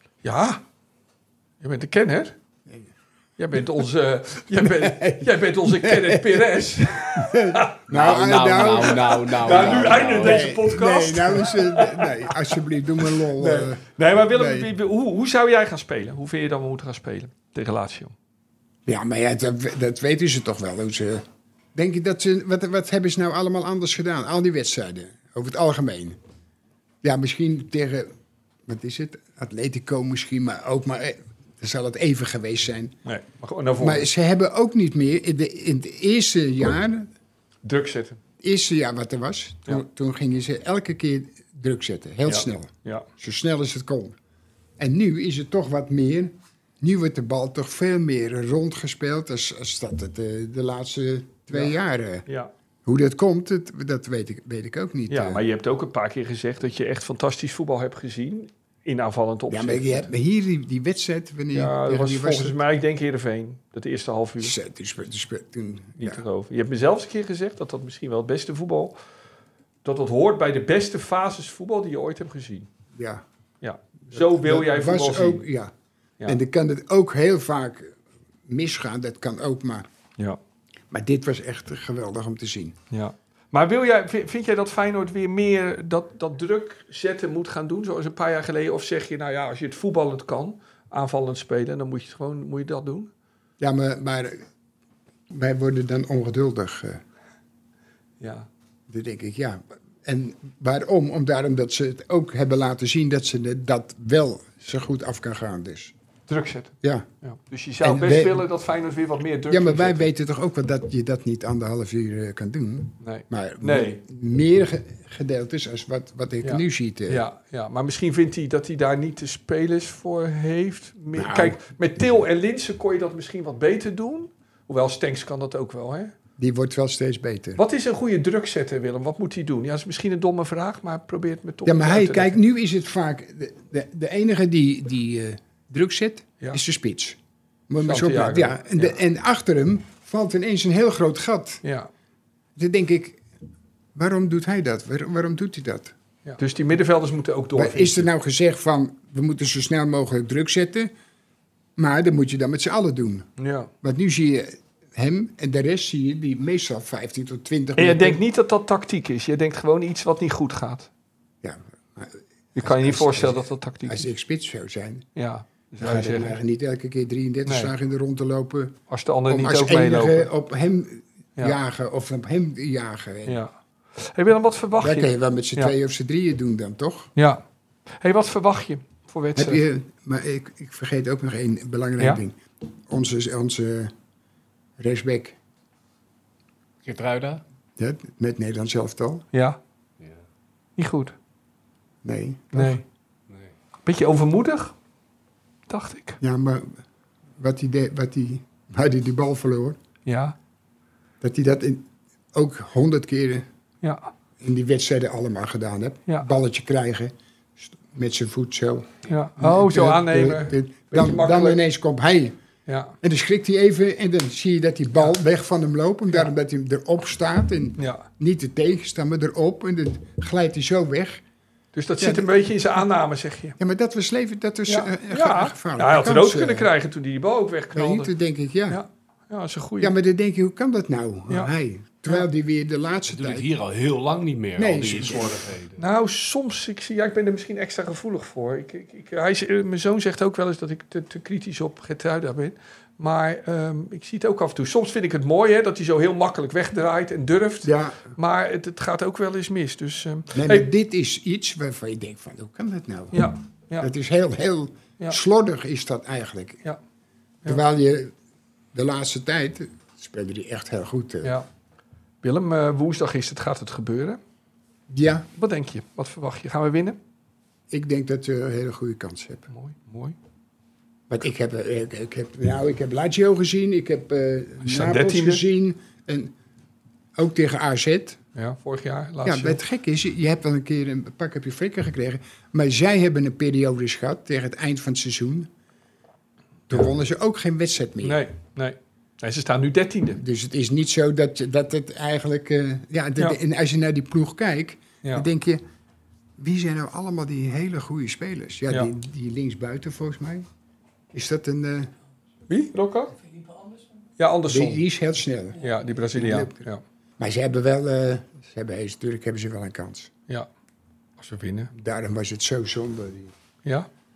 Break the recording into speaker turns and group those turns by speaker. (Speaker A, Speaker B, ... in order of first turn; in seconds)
Speaker A: 0.2-0.6, 1.6-2.4, 3.4-7.8, 9.1-12.5, 13.0-18.1, 33.0-34.1, 37.6-38.2, 42.2-43.1, 55.1-60.1, 61.5-64.5, 66.0-69.0, 69.8-72.7, 73.6-75.5, 82.9-93.1, 98.2-98.5, 106.3-110.1, 113.0-114.0, 116.4-126.1, 127.6-132.4, 137.8-138.9, 141.6-141.9, 146.3-148.1, 153.4-153.7, 157.8-160.9, 162.5-164.1, 165.2-166.3, 167.4-167.7, 168.9-170.3, 173.2-175.7, 177.2-177.4, 178.0-179.6, 189.3-189.6, 190.8-191.1, 192.5-192.8, 193.8-194.7, 195.7-196.2, 200.1-200.3, 203.8-204.1, 209.1-211.6, 212.7-212.9, 217.8-218.1, 221.7-223.6, 224.7-228.1, 228.7-229.9, 235.8-250.7, 253.1-253.9, 262.2-264.2, 265.3-267.0, 269.5-270.1, 274.6-275.4, 278.3-279.6, 288.0-290.2, 302.5-303.1, 304.2-304.8, 305.6-306.8, 311.2-311.7
Speaker B: 4.5-14.7, 18.9-21.2, 21.7-26.2, 27.0-28.1, 28.6-33.0, 33.8-37.1, 38.4-44.1, 44.8-52.2, 52.8-55.4, 59.5-62.6, 64.4-66.2, 72.9-73.2, 74.1-75.7, 76.2-77.9, 78.5-79.9, 80.9-82.8, 93.6-94.4, 95.3-97.0, 98.9-105.9, 107.8-108.4, 109.5-117.2, 121.1-121.6, 126.4-127.6, 131.6-141.6, 142.6-143.2, 143.9-145.9, 147.5-150.9, 151.8-153.3, 153.8-158.2, 161.4-165.1, 165.8-173.4, 174.8-177.1, 179.3-182.4, 182.9-183.9, 184.8-185.4, 187.8-189.2, 192.0-192.8, 196.2-196.7, 197.4-199.8, 201.2-203.5, 204.4-212.3, 213.0-221.2, 222.0-222.3, 223.6-226.7, 227.7-228.8, 229.8-233.5, 234.6-235.5, 247.6-248.1, 250.3-256.6, 257.4-258.1, 258.7-261.4, 264.9-265.3, 267.7-269.5, 271.1-276.3, 277.1-278.2, 279.2-285.5, 286.7-288.2, 290.2-295.6, 296.4-300.5, 301.1-301.9, 304.5-305.6, 306.1-306.6, 307.2-310.1, 311.7-313.3
Speaker C: 7.9-10.5, 186.8-187.4, 233.1-235.8